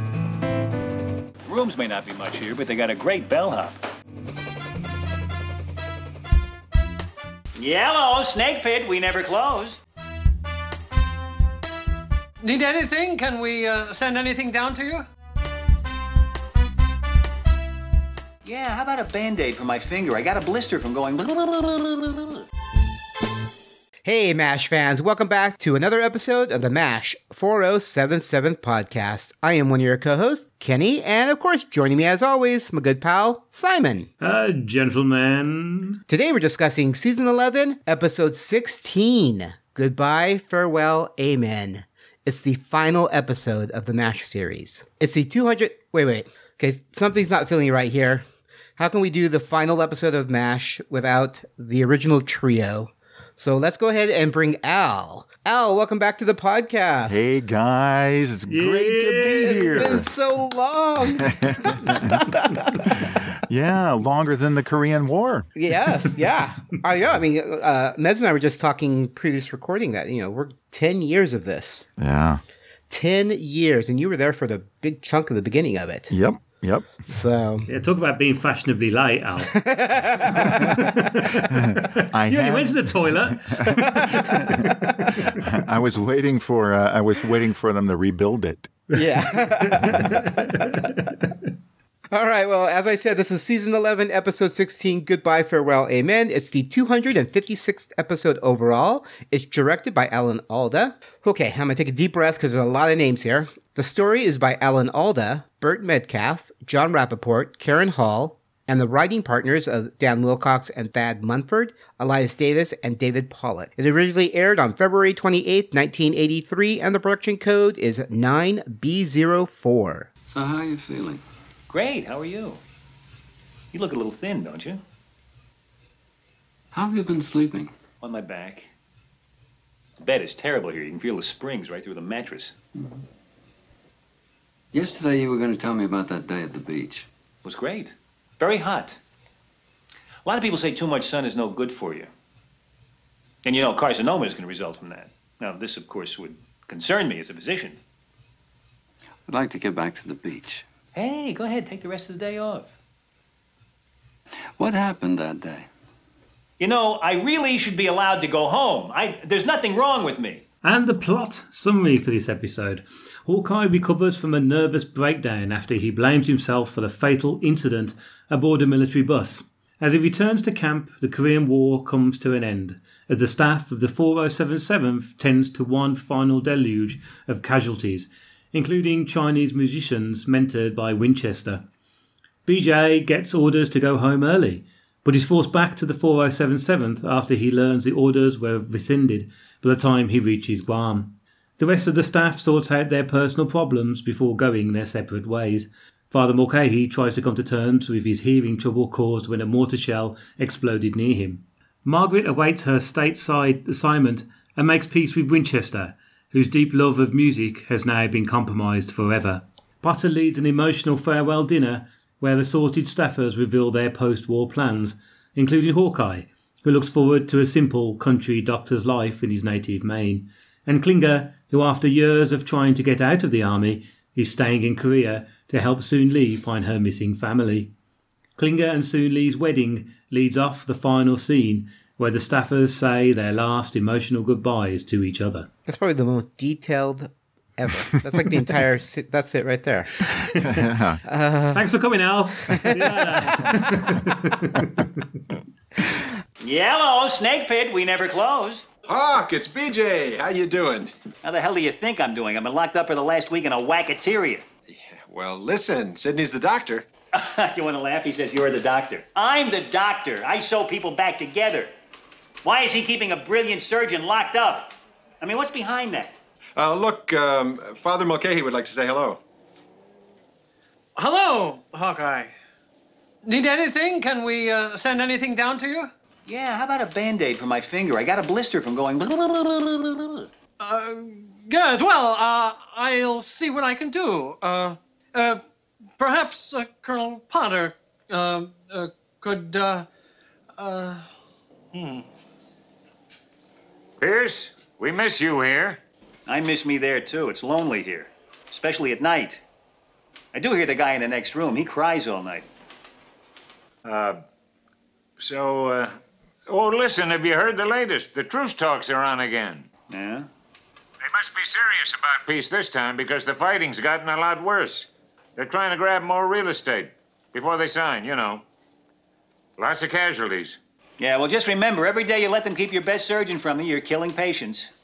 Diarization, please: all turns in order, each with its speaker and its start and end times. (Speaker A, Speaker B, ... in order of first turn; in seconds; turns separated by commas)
Speaker A: 1.5-3.8, Speaker A: 7.5-9.8, Speaker B: 12.4-15.1, Speaker A: 18.4-22.4, Speaker C: 24.0-34.1, Speaker D: 34.2-36.0, Speaker C: 36.1-57.2, Speaker E: 57.1-60.1, Speaker D: 58.5-60.0, Speaker C: 59.4-63.1, Speaker E: 61.2-65.5, Speaker C: 65.5-71.9, Speaker E: 72.0-72.4, Speaker C: 72.9-76.2, Speaker E: 76.1-77.0, Speaker C: 77.0-77.7, Speaker D: 77.7-79.6, Speaker C: 79.5-81.1, Speaker D: 80.3-85.2, Speaker E: 80.4-80.7, Speaker E: 81.4-88.8, Speaker C: 83.7-85.2, Speaker C: 88.9-90.4, Speaker D: 89.6-91.3, Speaker C: 92.1-120.1, Speaker F: 120.3-121.2, Speaker A: 121.7-122.6, Speaker A: 123.7-124.8, Speaker F: 126.7-127.7, Speaker A: 128.0-128.7, Speaker A: 130.0-132.6, Speaker F: 134.7-137.1, Speaker A: 137.4-139.0, Speaker A: 140.2-142.1, Speaker A: 143.4-147.8, Speaker F: 149.3-150.7, Speaker A: 150.9-152.7, Speaker F: 154.6-155.7, Speaker A: 156.6-160.4, Speaker D: 160.6-181.7, Speaker D: 182.5-227.7, Speaker D: 228.4-235.5, Speaker C: 235.7-240.1, Speaker E: 240.4-241.0, Speaker C: 241.0-241.7, Speaker D: 241.5-245.2, Speaker C: 242.5-243.9, Speaker A: 246.4-248.7, Speaker G: 248.9-250.9, Speaker A: 251.2-254.4, Speaker G: 254.7-256.9, Speaker A: 257.1-261.7, Speaker A: 262.4-266.2, Speaker G: 266.6-269.2, Speaker B: 271.0-272.3, Speaker B: 273.2-275.9, Speaker A: 276.3-280.3, Speaker B: 280.6-285.4, Speaker B: 286.0-289.9, Speaker B: 290.6-291.1, Speaker B: 291.7-292.0, Speaker H: 294.0-295.8, Speaker A: 296.3-299.4, Speaker A: 300.3-302.5, Speaker H: 303.8-304.2, Speaker H: 305.2-306.0, Speaker H: 306.5-309.7, Speaker A: 309.9-310.3, Speaker H: 311.0-318.4, Speaker H: 319.6-320.6, Speaker A: 321.0-324.7